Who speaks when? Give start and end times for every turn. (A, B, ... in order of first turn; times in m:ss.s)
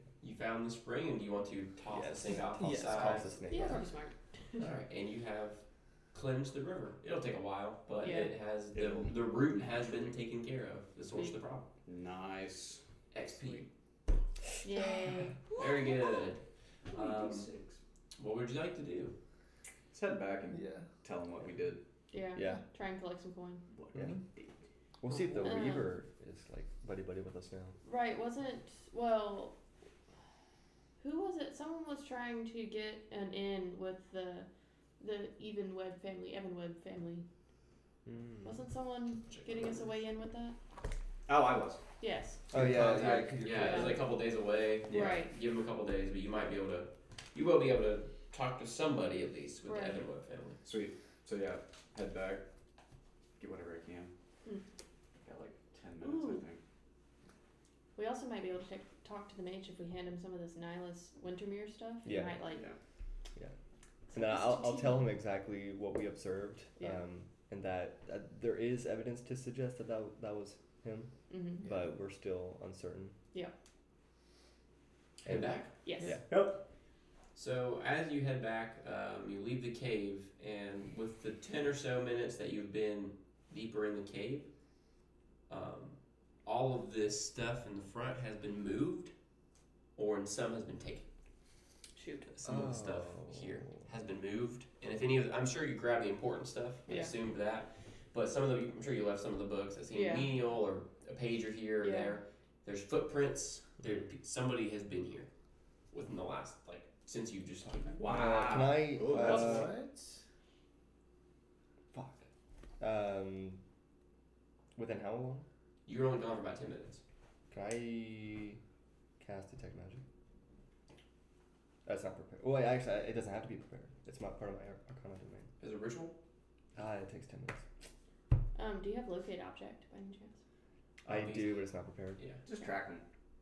0:00.2-0:03.4 A
0:01.9-0:03.9 B
0:02.6-0:03.2 C
0:03.5-0:04.7 D
0:04.6-0:11.7 A
0:08.0-0:08.3 D
0:08.7-0:10.1 E
0:11.8-0:12.8 E
0:13.1-0:13.7 A
0:13.4-0:13.7 C
0:14.6-0:15.9 D
0:15.5-0:17.5 A
0:16.9-0:17.8 E
0:18.2-0:19.2 A
0:19.9-0:21.8 E
0:20.5-0:20.9 C
0:22.1-0:23.6 D
0:22.4-0:22.6 B
0:23.7-0:24.6 E
0:24.0-0:24.2 C
0:25.0-0:27.8 B
0:25.1-0:25.9 D
0:27.8-0:29.6 D
0:31.0-0:34.5 D
0:35.0-0:37.2 D
0:38.0-0:38.6 B
0:38.4-0:40.6 D
0:39.3-0:39.9 A
0:41.3-0:41.8 E
0:42.0-0:44.0 D
0:42.5-0:44.0 B
0:42.6-0:50.6 A
0:42.6-0:43.0 E
0:44.9-0:45.2 E
0:44.9-0:45.3 D
0:49.7-0:50.0 D
0:50.6-0:52.4 E
0:53.4-0:54.1 E
0:55.2-0:56.6 E
0:56.0-0:56.4 D
0:58.0-1:02.7 D
1:02.0-1:02.4 B
1:02.5-1:02.8 E
1:04.1-1:05.1 D
1:04.1-1:13.2 B
1:11.3-1:11.6 D
1:15.2-1:15.7 A
1:15.8-1:16.2 D
1:16.0-1:16.3 B
1:17.4-1:24.5 A
1:25.5-1:29.1 A
1:30.0-1:31.1 A
1:32.0-1:32.3 D
1:32.3-1:45.3 A
1:32.4-1:33.8 B
1:36.9-1:37.1 D
1:39.9-1:40.3 D
1:41.8-1:42.2 D
1:45.9-1:48.1 A
1:48.0-1:49.7 E
1:48.0-1:49.7 B
1:49.2-1:50.2 C
1:51.9-1:52.3 B
1:52.8-1:53.6 B
1:54.8-1:55.5 B
1:55.9-1:57.0 A
1:57.5-1:58.6 B
1:59.2-2:00.0 B
2:01.8-2:05.5 B
2:05.6-2:06.2 A
2:06.8-2:07.6 B
2:08.6-2:10.4 D
2:11.0-2:11.6 A
2:11.1-2:12.2 B
2:12.4-2:13.0 E